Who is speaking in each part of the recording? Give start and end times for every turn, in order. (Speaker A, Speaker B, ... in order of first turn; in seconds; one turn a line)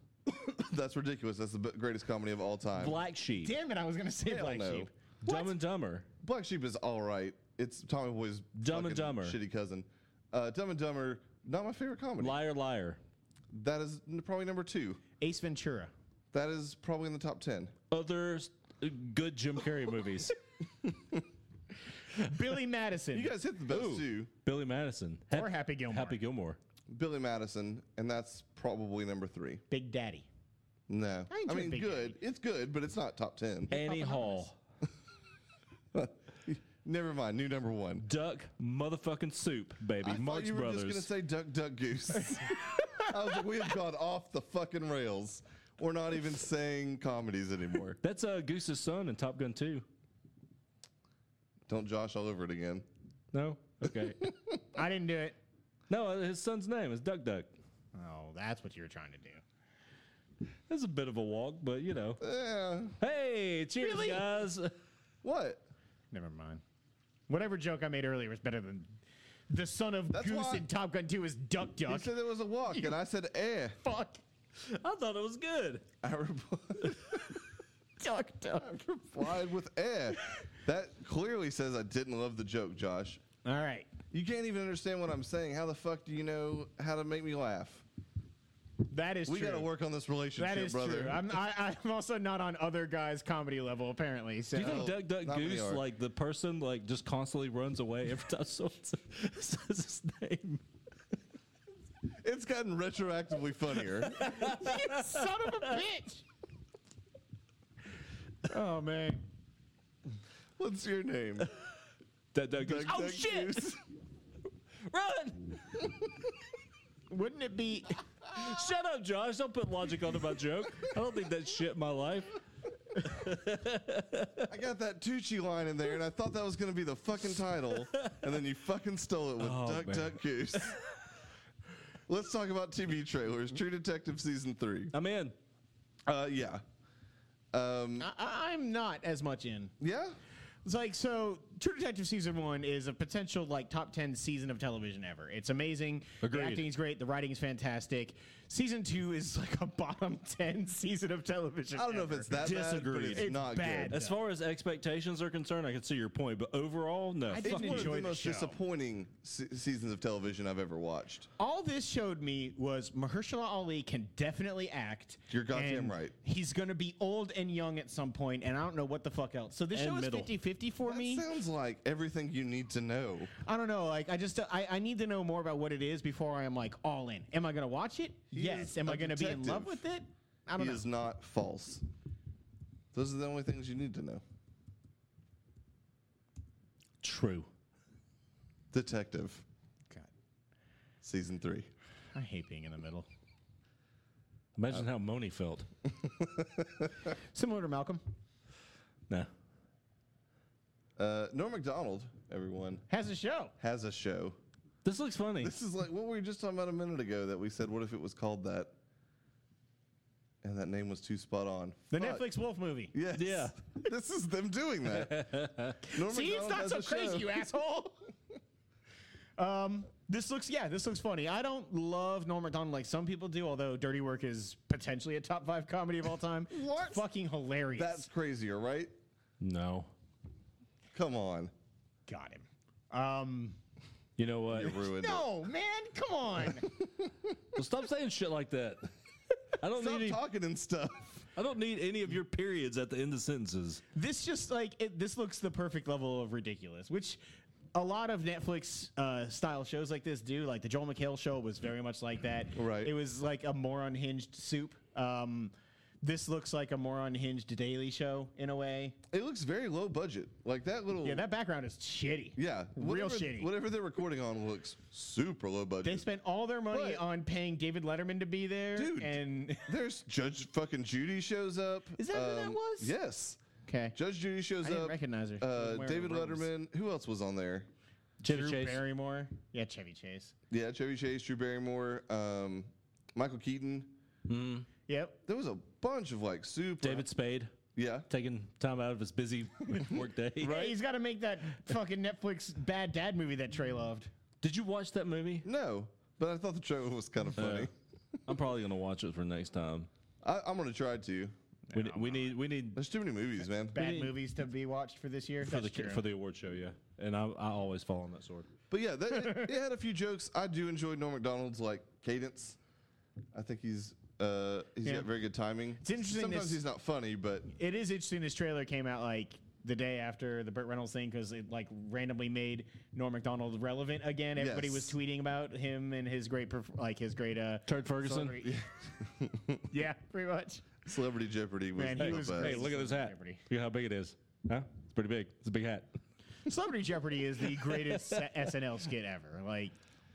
Speaker A: 0.2-3.0
Speaker B: 2.8-3.5
Speaker C: 3.4-5.5
Speaker A: 4.2-4.9
Speaker B: 5.2-6.0
Speaker A: 6.2-12.3
Speaker B: 8.6-9.4
Speaker B: 12.2-13.0
Speaker A: 13.5-15.0
Speaker C: 15.2-15.9
Speaker A: 16.3-17.7
Speaker B: 17.9-20.4
Speaker C: 22.1-23.3
Speaker A: 23.1-24.3
Speaker B: 23.7-26.6
Speaker C: 25.3-26.2
Speaker A: 26.9-29.6
Speaker C: 29.7-30.3
Speaker A: 30.9-33.7
Speaker C: 31.3-32.2
Speaker C: 33.7-34.5
Speaker B: 33.7-34.5
Speaker A: 35.9-38.0
Speaker B: 38.0-41.1
Speaker A: 40.0-48.0
Speaker C: 42.2-43.4
Speaker B: 48.0-49.9
Speaker A: 51.7-52.9
Speaker B: 53.3-54.3
Speaker A: 54.2-54.6
Speaker C: 54.7-55.4
Speaker B: 55.9-57.5
Speaker C: 57.9-59.4
Speaker B: 60.7-62.2
Speaker A: 62.2-63.0
Speaker B: 63.0-64.7
Speaker C: 63.8-64.2
Speaker A: 65.2-65.6
Speaker C: 66.1-66.6
Speaker C: 67.3-69.0
Speaker C: 69.5-72.1
Speaker A: 70.1-70.7
Speaker A: 71.9-73.8
Speaker C: 72.7-72.9
Speaker C: 73.8-74.2
Speaker B: 74.6-75.8
Speaker A: 76.0-77.4
Speaker C: 78.0-78.8
Speaker A: 78.6-83.2
Speaker C: 83.4-83.9
Speaker A: 84.1-87.8
Speaker C: 88.9-89.7
Speaker A: 89.2-91.3
Speaker C: 90.3-94.9
Speaker B: 94.5-100.6
Speaker A: 94.6-95.8
Speaker A: 102.0-104.5
Speaker B: 104.2-105.6
Speaker C: 104.2-106.2
Speaker C: 108.5-109.2
Speaker A: 110.6-111.5
Speaker B: 112.3-113.8
Speaker A: 112.6-113.8
Speaker B: 114.8-115.8
Speaker C: 117.1-118.0
Speaker B: 118.3-122.4
Speaker B: 122.9-124.5
Speaker A: 124.5-130.8
Speaker B: 127.8-128.2
Speaker B: 129.4-130.8
Speaker A: 132.1-134.9
Speaker B: 134.9-135.3
Speaker A: 136.1-136.6
Speaker A: 137.5-138.1
Speaker C: 138.0-139.7
Speaker A: 139.8-140.2
Speaker C: 140.6-154.2
Speaker B: 146.2-146.6
Speaker A: 151.7-154.0
Speaker B: 152.4-153.3
Speaker B: 153.9-158.1
Speaker C: 157.3-158.6
Speaker A: 157.4-161.3
Speaker C: 161.4-171.2
Speaker A: 165.3-166.1
Speaker B: 169.7-170.3
Speaker A: 170.9-173.3
Speaker C: 173.4-180.8
Speaker A: 178.3-179.8
Speaker A: 180.6-181.8
Speaker A: 182.9-184.2
Speaker B: 187.0-187.5
Speaker A: 188.7-189.4
Speaker A: 191.0-191.7
Speaker C: 192.1-193.1
Speaker B: 194.5-195.7
Speaker A: 196.2-196.9
Speaker C: 197.3-198.0
Speaker A: 201.0-202.8
Speaker C: 202.9-203.5
Speaker A: 203.6-204.4
Speaker B: 204.8-205.5
Speaker A: 205.4-208.8
Speaker A: 210.4-212.2
Speaker C: 211.9-212.9
Speaker A: 212.9-217.4
Speaker B: 213.1-213.6
Speaker B: 214.9-215.9
Speaker C: 215.9-218.1
Speaker C: 219.4-228.1
Speaker A: 226.5-227.0
Speaker A: 227.8-228.9
Speaker B: 229.4-229.9
Speaker A: 230.9-231.5
Speaker C: 232.1-233.6
Speaker B: 234.2-234.8
Speaker A: 234.5-235.2
Speaker C: 234.6-236.7
Speaker B: 237.5-238.9
Speaker B: 239.6-240.2
Speaker A: 239.7-241.3
Speaker B: 241.3-243.8
Speaker C: 243.9-247.2
Speaker C: 247.7-258.9
Speaker A: 252.5-252.9
Speaker A: 259.1-261.3
Speaker C: 261.0-263.5
Speaker A: 262.4-266.0
Speaker C: 265.8-269.7
Speaker A: 266.7-267.0
Speaker A: 268.8-273.4
Speaker C: 272.0-272.9
Speaker C: 273.6-273.9
Speaker A: 273.9-277.7
Speaker C: 274.6-276.5
Speaker C: 278.2-280.3
Speaker B: 278.2-278.8
Speaker A: 280.5-283.9
Speaker B: 284.3-284.7
Speaker C: 284.9-285.2
Speaker A: 285.3-287.1
Speaker B: 286.8-287.6
Speaker A: 287.7-288.1
Speaker B: 288.1-290.7
Speaker A: 290.4-290.8
Speaker C: 290.4-294.1
Speaker B: 294.4-295.4
Speaker A: 295.4-297.7
Speaker B: 297.4-297.7
Speaker B: 298.3-299.9
Speaker A: 300.2-301.3
Speaker C: 301.7-302.3
Speaker B: 301.7-302.8
Speaker A: 302.7-303.8
Speaker B: 303.7-304.1
Speaker C: 303.7-306.0
Speaker B: 305.4-308.5
Speaker A: 308.7-312.6
Speaker A: 313.3-317.5
Speaker C: 314.8-315.1
Speaker C: 315.8-316.6
Speaker C: 317.5-328.6
Speaker A: 324.4-324.9
Speaker B: 327.7-328.4
Speaker A: 328.4-329.6
Speaker C: 329.7-330.7
Speaker A: 330.8-332.6
Speaker C: 331.8-333.4
Speaker B: 331.9-335.9
Speaker C: 336.4-339.7
Speaker B: 337.7-338.2